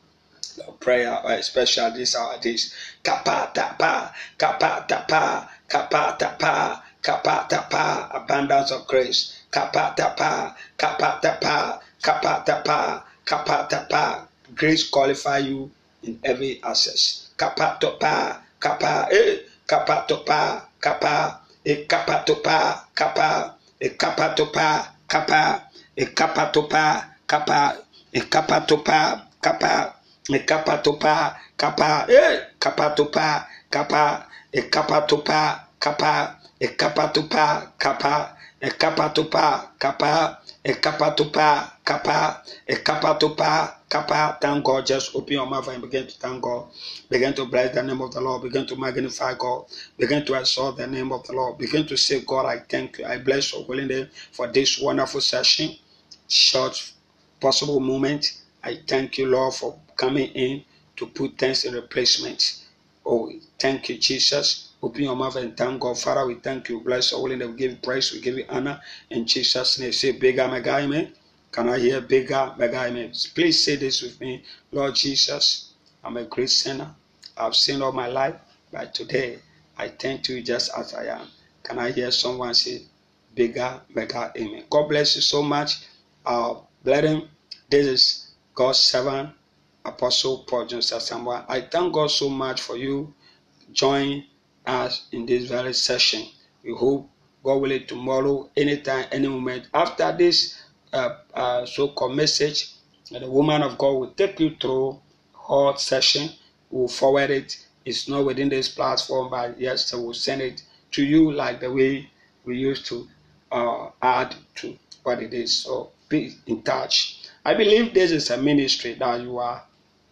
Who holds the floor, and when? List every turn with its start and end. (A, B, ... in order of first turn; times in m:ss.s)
0:00.6-1:29.3 A
1:29.8-1:33.2 A
1:33.7-1:59.6 A